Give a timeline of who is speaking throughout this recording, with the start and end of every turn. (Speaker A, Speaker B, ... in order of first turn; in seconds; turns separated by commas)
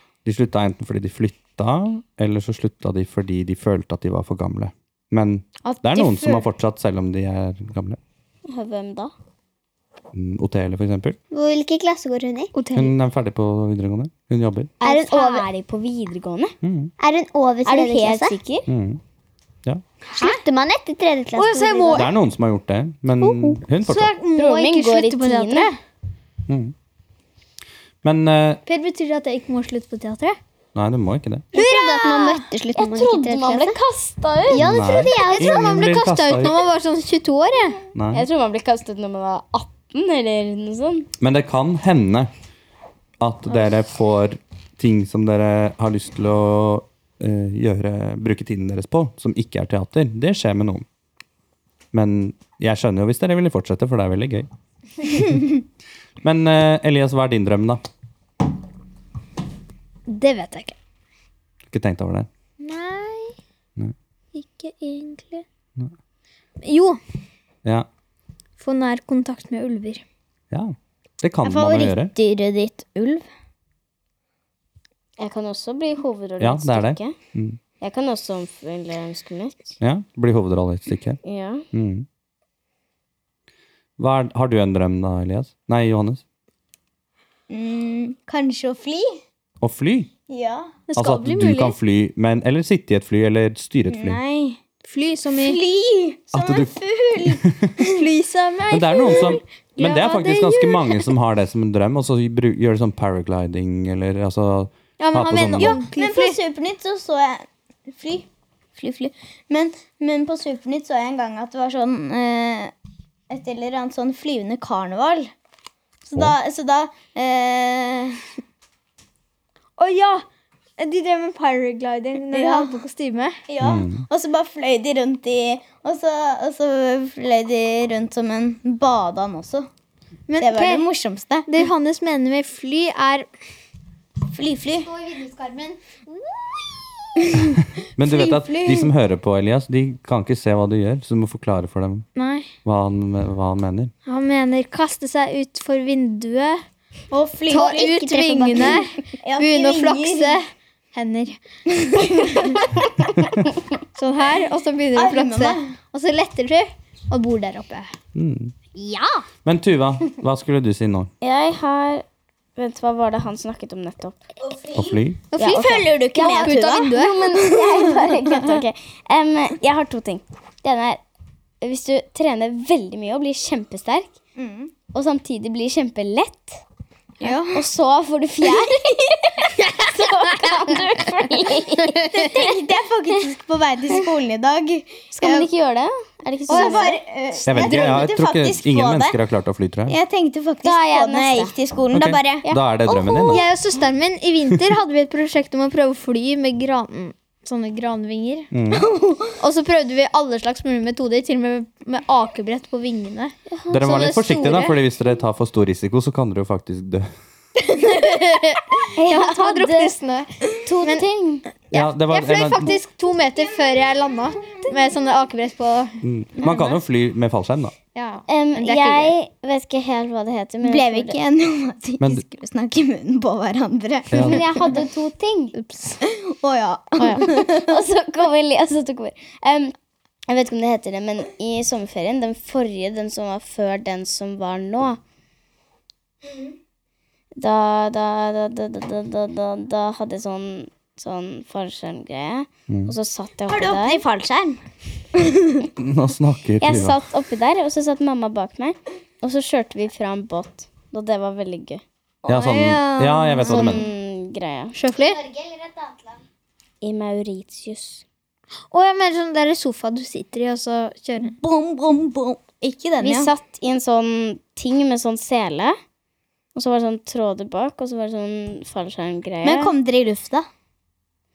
Speaker A: 0.2-8.0, Speaker B: 5.7-6.5, Speaker C: 8.5-9.1, Speaker A: 10.1-11.2, Speaker D: 11.3-12.5, Speaker E: 12.5-12.9, Speaker A: 12.7-14.7, Speaker D: 14.8-15.5, Speaker C: 14.8-16.6, Speaker A: 16.6-16.9, Speaker D: 17.0-18.4, Speaker C: 17.6-18.7, Speaker A: 18.7-19.0, Speaker E: 20.2-20.4, Speaker D: 20.2-22.1, Speaker E: 21.4-22.1, Speaker A: 21.9-24.1, Speaker E: 23.4-25.8, Speaker C: 24.4-25.7, Speaker A: 26.5-26.7, Speaker A: 28.0-28.6, Speaker E: 28.7-30.4, Speaker A: 30.8-31.5, Speaker E: 31.5-32.5, Speaker D: 31.6-33.8, Speaker C: 32.7-34.7, Speaker D: 34.5-35.8, Speaker E: 34.5-37.8, Speaker A: 34.6-36.6, Speaker A: 38.0-38.2, Speaker C: 38.1-41.1, Speaker A: 41.2-42.3, Speaker A: 43.2-50.9, Speaker A: 51.9-54.5, Speaker A: 55.1-55.4, Speaker A: 56.2-57.8, Speaker E: 60.1-60.8, Speaker A: 61.7-62.3, Speaker E: 62.6-63.4, Speaker E: 64.3-65.5, Speaker E: 66.6-67.0, Speaker E: 68.6-70.0, Speaker A: 70.5-72.1, Speaker B: 71.4-73.2, Speaker C: 75.2-77.2, Speaker A: 76.4-77.6, Speaker C: 77.8-79.8, Speaker A: 79.8-81.2, Speaker C: 81.2-81.7, Speaker A: 81.7-82.1, Speaker A: 84.0-86.2, Speaker B: 87.5-89.2, Speaker A: 89.6-90.1, Speaker B: 90.3-90.8, Speaker E: 90.9-91.8, Speaker A: 91.0-94.2, Speaker B: 93.9-94.6, Speaker E: 94.8-95.6, Speaker B: 95.3-98.1, Speaker A: 96.3-97.7, Speaker E: 97.8-101.1, Speaker A: 98.7-105.8, Speaker E: 105.0-106.4, Speaker B: 105.6-112.7, Speaker B: 113.3-115.3, Speaker B: 116.0-118.2, Speaker E: 119.8-120.3, Speaker E: 120.8-123.4, Speaker B: 122.3-122.8, Speaker B: 123.5-129.7, Speaker A: 123.6-124.0, Speaker E: 130.3-130.9, Speaker B: 130.4-131.5, Speaker E: 131.5-133.3, Speaker B: 134.3-134.9, Speaker E: 134.8-137.5, Speaker B: 137.2-138.9, Speaker A: 137.4-142.1, Speaker E: 142.2-142.5, Speaker A: 142.7-143.9, Speaker E: 144.1-146.7, Speaker B: 147.1-150.4, Speaker E: 147.5-150.4, Speaker E: 150.9-151.4, Speaker B: 151.7-152.7, Speaker E: 152.1-152.6, Speaker E: 153.9-157.9, Speaker B: 154.9-155.8, Speaker A: 158.1-158.5, Speaker E: 158.7-159.3, Speaker A: 159.4-161.1, Speaker C: 161.2-162.1, Speaker C: 162.6-164.2, Speaker B: 164.4-164.8, Speaker A: 164.7-165.2, Speaker E: 165.3-167.3, Speaker C: 165.4-171.0, Speaker B: 165.4-168.4, Speaker C: 171.6-174.2, Speaker B: 174.4-174.7, Speaker C: 174.9-176.6, Speaker B: 177.2-177.7, Speaker C: 177.5-182.5, Speaker E: 179.6-180.7, Speaker B: 182.1-185.5, Speaker C: 185.1-187.0, Speaker E: 186.5-186.9, Speaker B: 186.5-189.2, Speaker A: 187.5-190.0, Speaker B: 189.9-193.4, Speaker C: 190.6-191.6, Speaker A: 191.9-193.4, Speaker C: 192.4-193.3, Speaker E: 193.3-198.5, Speaker A: 198.5-198.9, Speaker B: 198.7-199.4, Speaker E: 199.4-204.8, Speaker A: 203.7-207.1, Speaker E: 207.8-211.0, Speaker C: 208.9-209.9, Speaker C: 210.6-211.5, Speaker E: 211.6-216.7, Speaker A: 211.7-212.8, Speaker A: 216.0-217.7, Speaker E: 217.9-219.2, Speaker C: 218.3-221.2, Speaker B: 220.6-224.8, Speaker A: 222.0-222.2, Speaker A: 224.1-224.5, Speaker C: 224.1-225.6, Speaker E: 225.6-226.0, Speaker B: 226.0-227.8, Speaker E: 227.0-227.3, Speaker C: 227.0-229.7, Speaker C: 230.3-235.0, Speaker C: 237.4-244.0, Speaker A: 242.7-242.9, Speaker B: 243.5-244.6, Speaker B: 245.2-245.6, Speaker A: 245.8-247.0, Speaker C: 246.6-251.8, Speaker B: 252.2-253.8, Speaker A: 252.3-253.9, Speaker C: 253.5-254.8, Speaker E: 254.8-255.2, Speaker D: 255.0-256.2, Speaker C: 256.8-258.0, Speaker E: 258.7-261.4, Speaker B: 261.2-263.3, Speaker C: 263.0-265.8, Speaker C: 266.6-269.7, Speaker B: 269.4-270.5